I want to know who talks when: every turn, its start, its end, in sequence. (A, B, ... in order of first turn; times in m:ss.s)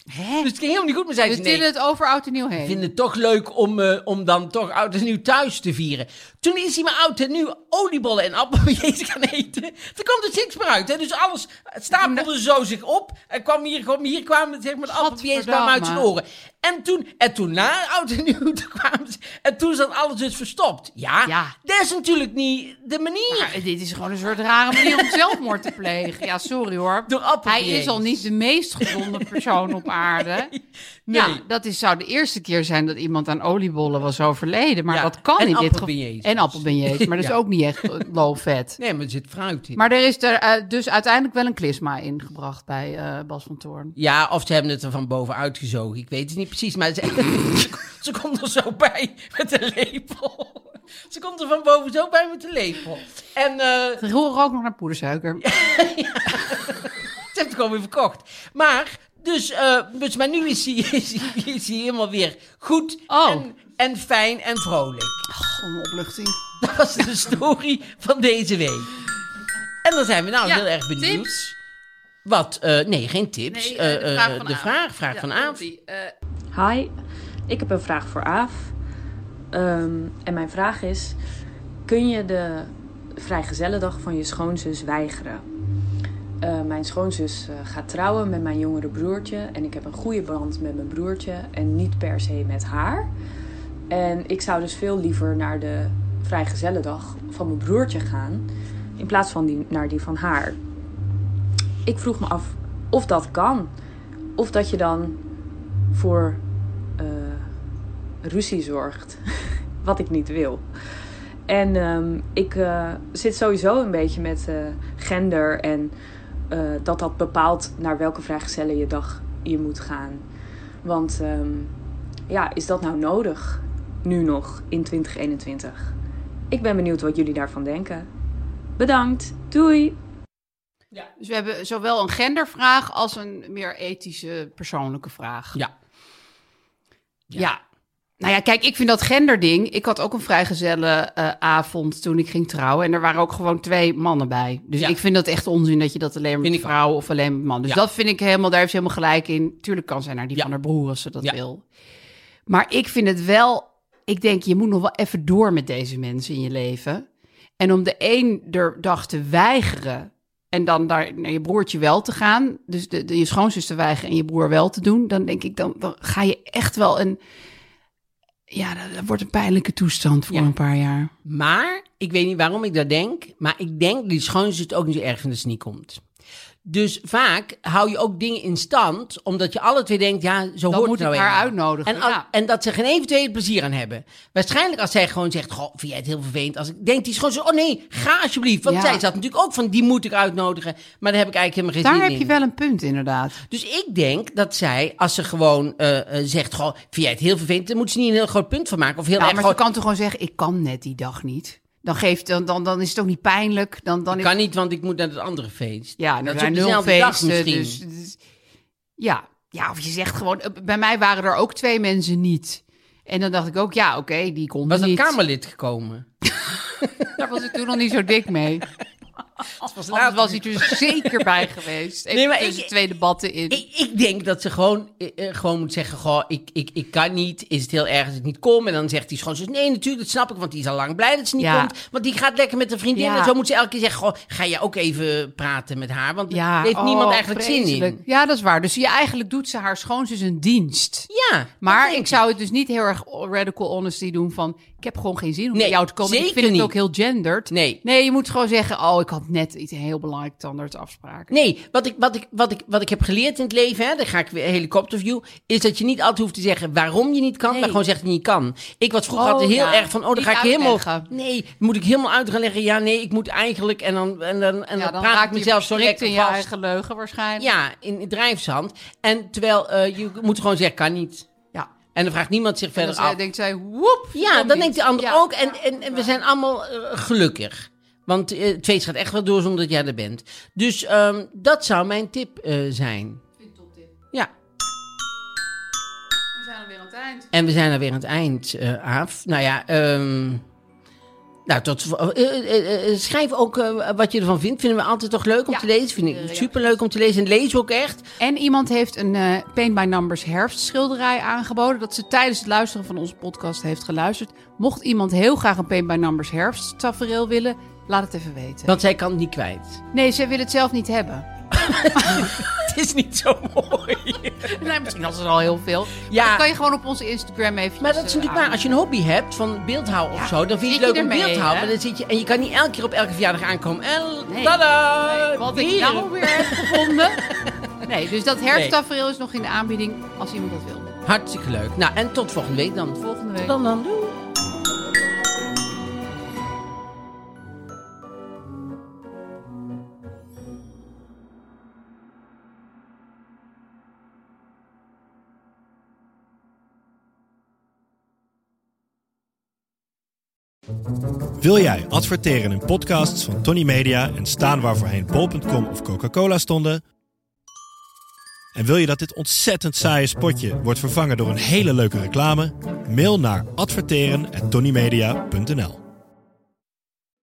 0:00.1-0:00.5 A
0:00.4-0:01.6 B
0:01.2-0:02.8 A
0:02.6-0:23.6 B
0:11.9-0:12.3 A
0:14.9-0:16.1 A
0:21.3-0:21.6 A
0:23.3-0:30.5 A
0:24.7-0:25.4 B
0:27.1-0:28.3 B
0:28.8-0:31.4 B
0:31.1-0:38.8 A
0:34.9-0:37.3 B
0:38.8-0:39.8 B
0:39.8-0:43.9 A
0:44.0-0:54.0 B
0:54.0-0:55.4 A
0:55.4-1:05.3 B
1:03.1-1:03.5 A
1:05.3-1:06.4 A
1:06.6-1:09.0 B
1:09.8-1:11.5 B
1:10.4-1:11.5 A
1:12.3-1:15.6 B
1:13.5-1:16.1 A
1:16.5-1:16.9 C
1:17.5-1:18.7 C
1:19.5-1:21.2 C
1:21.9-1:25.5 C
1:26.4-1:33.1 C
1:33.9-1:40.6 C
1:41.9-1:43.7 C
1:44.4-1:45.2 C
1:45.9-1:46.4 C
1:47.0-1:47.5 C
1:48.2-1:49.2 C
1:49.8-1:50.6 C
1:51.5-1:55.9 C
1:56.5-2:00.2 C
2:00.8-2:01.7 C
2:02.3-2:05.9 C
2:06.5-2:08.1 C
2:08.8-2:10.0 C
2:11.2-2:15.6 A
2:17.4-2:17.6 A
2:18.2-2:31.6 A
2:26.4-2:26.8 B
2:32.5-2:37.1 A
2:37.6-2:47.2 A
2:48.5-2:51.1 A
2:51.2-2:56.0 B
2:56.7-3:12.3 B
3:00.7-3:02.2 A
3:08.7-3:09.0 A
3:11.8-3:13.4 A
3:13.5-3:19.6 B
3:19.2-3:24.3 A
3:24.1-3:27.8 B
3:26.0-3:28.2 A
3:29.0-3:35.2 A
3:34.7-3:36.1 B
3:37.2-3:38.6 A
3:39.6-3:41.5 B
3:39.9-3:43.6 A
3:42.1-3:42.7 B
3:43.5-3:58.0 B
3:51.4-3:51.7 A
3:53.0-3:53.3 A
3:56.3-4:01.1 A
4:01.1-4:02.2 B
4:01.6-4:11.3 A
4:05.5-4:06.7 B
4:07.5-4:07.8 B
4:11.3-4:26.5 B
4:17.5-4:17.8 A
4:19.1-4:21.1 A
4:24.8-4:27.5 A
4:27.4-4:31.3 B
4:32.0-4:33.2 B
4:32.8-4:36.2 A
4:34.2-4:43.2 B
4:43.4-4:43.9 A
4:46.4-4:47.3 A
4:47.3-4:50.4 B
4:51.5-4:58.1 B
4:55.5-4:56.8 A
4:58.2-5:08.7 A
5:08.7-5:09.8 B
5:09.9-5:11.3 A
5:11.5-5:14.6 B
5:11.9-5:12.4 A
5:14.4-5:18.7 A
5:16.1-5:16.4 B
5:17.8-5:27.8 B
5:20.1-5:21.8 A
5:24.3-5:27.2 A
5:27.8-5:30.9 A
5:31.1-5:34.2 B
5:33.0-5:33.6 A
5:51.4-5:56.8 D
5:58.6-6:05.8 D